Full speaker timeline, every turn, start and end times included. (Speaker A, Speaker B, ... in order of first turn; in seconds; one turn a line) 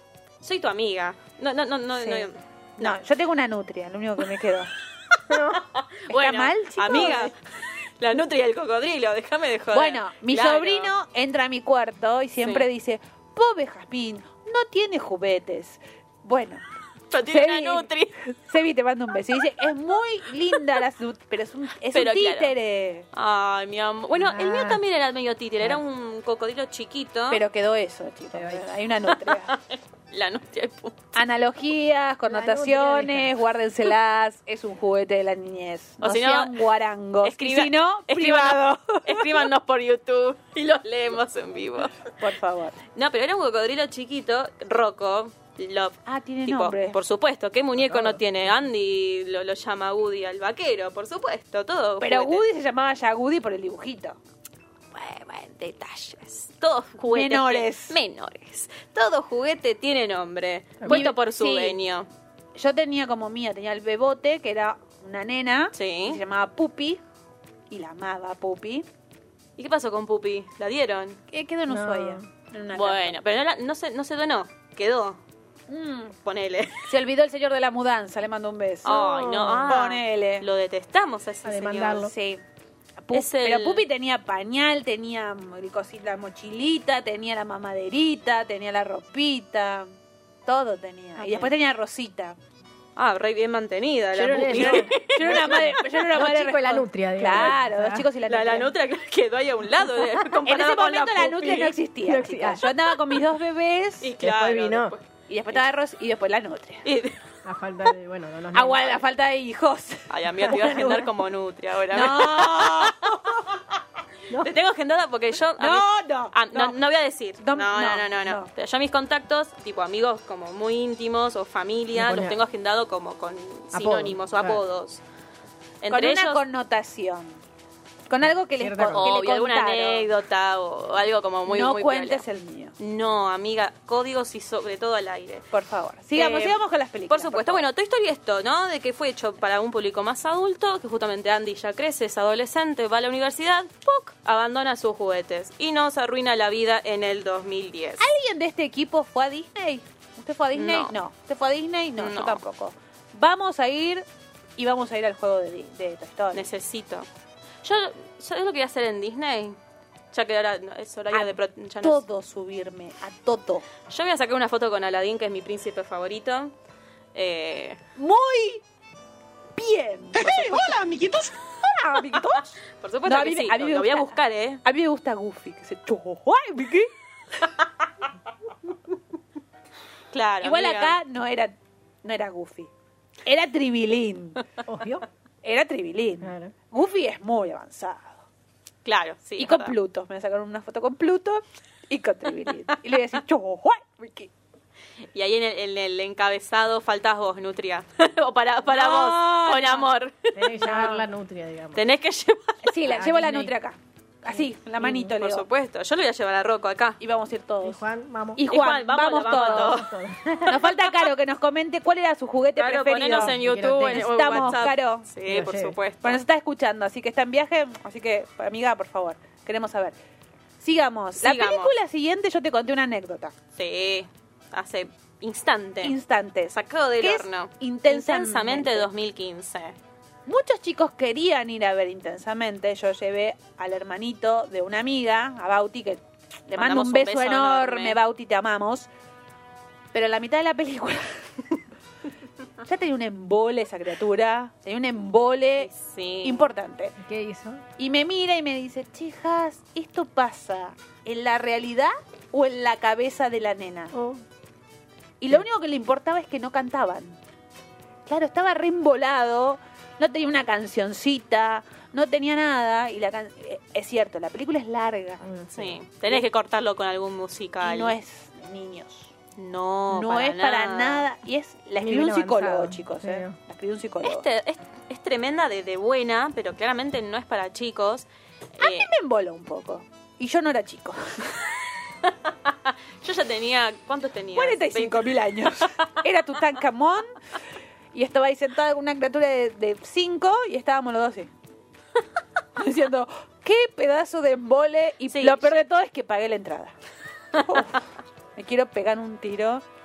Speaker A: 0.4-3.0
Speaker B: 2.0-2.3
Speaker B: 2.8-4.7
Speaker A: 5.1-10.9
Speaker C: 5.3-5.6
Speaker B: 6.1-7.3
Speaker C: 6.9-7.2
Speaker B: 9.7-16.6
Speaker A: 12.4-12.7
Speaker A: 17.1-18.2
Speaker B: 17.2-23.1
Speaker A: 21.9-22.6
Speaker A: 23.1-27.4
Speaker C: 24.1-24.8
Speaker B: 27.3-29.5
Speaker C: 28.3-28.7
Speaker A: 29.1-31.1
Speaker B: 31.1-39.5
Speaker C: 32.3-33.4
Speaker A: 36.0-36.6
Speaker A: 37.2-42.1
Speaker B: 42.2-42.8
Speaker A: 42.9-52.4
Speaker B: 46.0-47.0
Speaker C: 47.8-48.2
Speaker B: 52.0-54.2
Speaker A: 54.9-62.1
Speaker B: 57.1-58.0
Speaker C: 60.8-61.1
Speaker B: 60.9-61.8
Speaker B: 62.5-67.0
Speaker A: 65.7-66.2
Speaker B: 67.7-68.9
Speaker A: 69.6-71.2
Speaker B: 71.3-73.2
Speaker C: 71.7-72.3
Speaker A: 72.7-75.2
Speaker B: 75.7-76.1
Speaker A: 76.2-76.9
Speaker B: 76.8-80.5
Speaker A: 78.8-82.1
Speaker C: 78.8-79.8
Speaker C: 81.4-82.1
Speaker B: 82.0-82.4
Speaker B: 83.0-89.9
Speaker A: 83.1-83.8
Speaker B: 90.5-92.4
Speaker A: 91.2-91.5
Speaker A: 93.0-95.8
Speaker C: 94.2-98.1
Speaker B: 94.3-98.7
Speaker A: 98.3-101.8
Speaker B: 100.4-104.1
Speaker C: 102.0-102.9
Speaker A: 104.0-105.6
Speaker C: 104.2-104.9
Speaker B: 105.3-106.8
Speaker A: 106.8-107.2
Speaker C: 107.4-109.0
Speaker B: 108.5-111.1
Speaker A: 110.1-113.2
Speaker C: 110.5-111.0
Speaker B: 111.9-113.5
Speaker A: 114.4-125.0
Speaker B: 115.6-116.8
Speaker B: 117.4-118.5
Speaker C: 121.9-122.3
Speaker C: 123.7-124.6
Speaker A: 125.8-126.4
Speaker B: 125.9-127.4
Speaker B: 128.1-130.1
Speaker C: 128.6-129.1
Speaker A: 128.9-132.2
Speaker B: 131.5-132.7
Speaker A: 132.8-135.4
Speaker B: 135.5-137.7
Speaker A: 136.1-148.1
Speaker B: 148.0-154.0
Speaker A: 150.5-150.9
Speaker A: 152.0-152.4
Speaker B: 154.6-156.5
Speaker A: 156.3-157.1
Speaker A: 157.6-159.6
Speaker A: 160.1-162.0
Speaker B: 161.1-163.7
Speaker A: 163.9-166.5
Speaker A: 167.1-167.8
Speaker B: 167.9-168.6
Speaker B: 169.5-170.9
Speaker A: 170.2-171.3
Speaker B: 171.4-176.9
Speaker A: 172.7-174.6
Speaker A: 180.1-181.0
Speaker B: 180.4-182.7
Speaker B: 183.2-184.4
Speaker C: 184.7-185.1
Speaker B: 185.4-188.2
Speaker C: 186.2-186.5
Speaker A: 188.8-189.8
Speaker B: 189.4-194.3
Speaker A: 195.1-200.8
Speaker B: 198.7-199.9
Speaker C: 200.3-201.8
Speaker B: 200.6-201.0
Speaker A: 201.7-202.7
Speaker B: 202.6-205.4
Speaker C: 202.8-203.5
Speaker C: 204.4-205.1
Speaker A: 205.1-207.0
Speaker B: 207.0-207.8
Speaker C: 207.6-208.6
Speaker B: 208.3-209.8
Speaker A: 208.5-209.9
Speaker C: 209.2-210.6
Speaker A: 210.4-210.9
Speaker B: 210.5-215.1
Speaker A: 212.6-216.2
Speaker C: 213.1-214.7
Speaker C: 215.3-215.8
Speaker B: 216.0-219.9
Speaker B: 220.6-223.3
Speaker A: 221.2-221.7
Speaker A: 223.6-225.9
Speaker B: 225.8-228.9
Speaker A: 226.5-229.8
Speaker B: 230.2-238.9
Speaker A: 236.6-238.0
Speaker B: 239.9-241.6
Speaker B: 242.6-245.7
Speaker A: 245.6-246.5
Speaker B: 246.2-246.9
Speaker C: 247.0-247.6
Speaker B: 247.8-253.9
Speaker C: 253.9-254.2
Speaker B: 255.2-257.2
Speaker B: 258.1-265.2
Speaker C: 265.2-265.8
Speaker A: 265.5-267.9
Speaker B: 267.6-269.1
Speaker A: 269.4-271.1
Speaker B: 269.9-274.2
Speaker C: 271.8-273.4
Speaker A: 274.0-278.9
Speaker B: 278.6-281.4
Speaker A: 282.0-285.9
Speaker B: 284.3-287.2
Speaker B: 287.9-291.3
Speaker B: 292.6-296.7
Speaker A: 295.1-295.5
Speaker A: 297.3-297.7
Speaker B: 297.4-297.8
Speaker B: 298.4-299.6